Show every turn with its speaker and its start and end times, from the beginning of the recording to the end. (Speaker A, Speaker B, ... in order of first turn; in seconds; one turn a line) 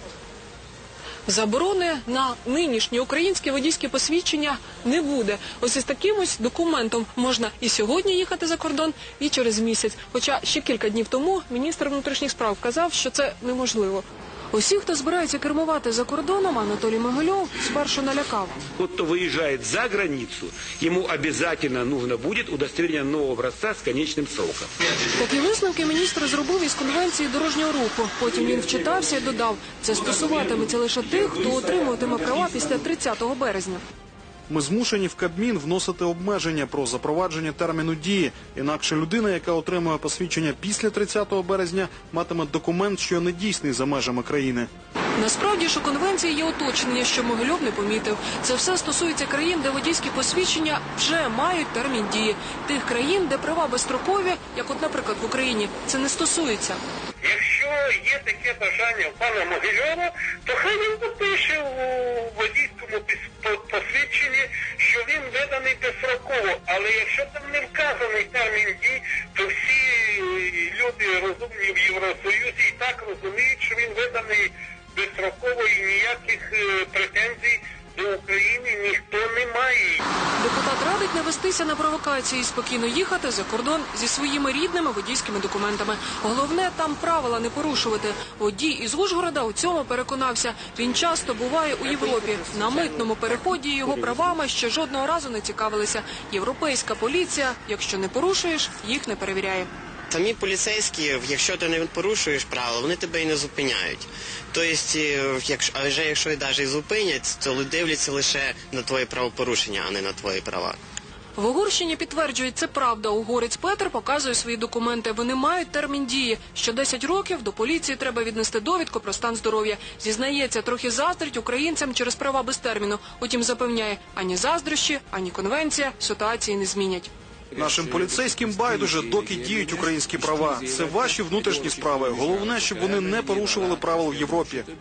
Speaker A: 1.2-18.6
Speaker B: 18.8-24.7
Speaker A: 25.2-33.8
Speaker C: 34.5-44.7
Speaker A: 45.2-56.8
Speaker D: 57.2-80.0
Speaker A: 80.4-99.7
Speaker E: 100.1-110.8
Speaker A: 111.3-127.1
Speaker C: 127.5-134.7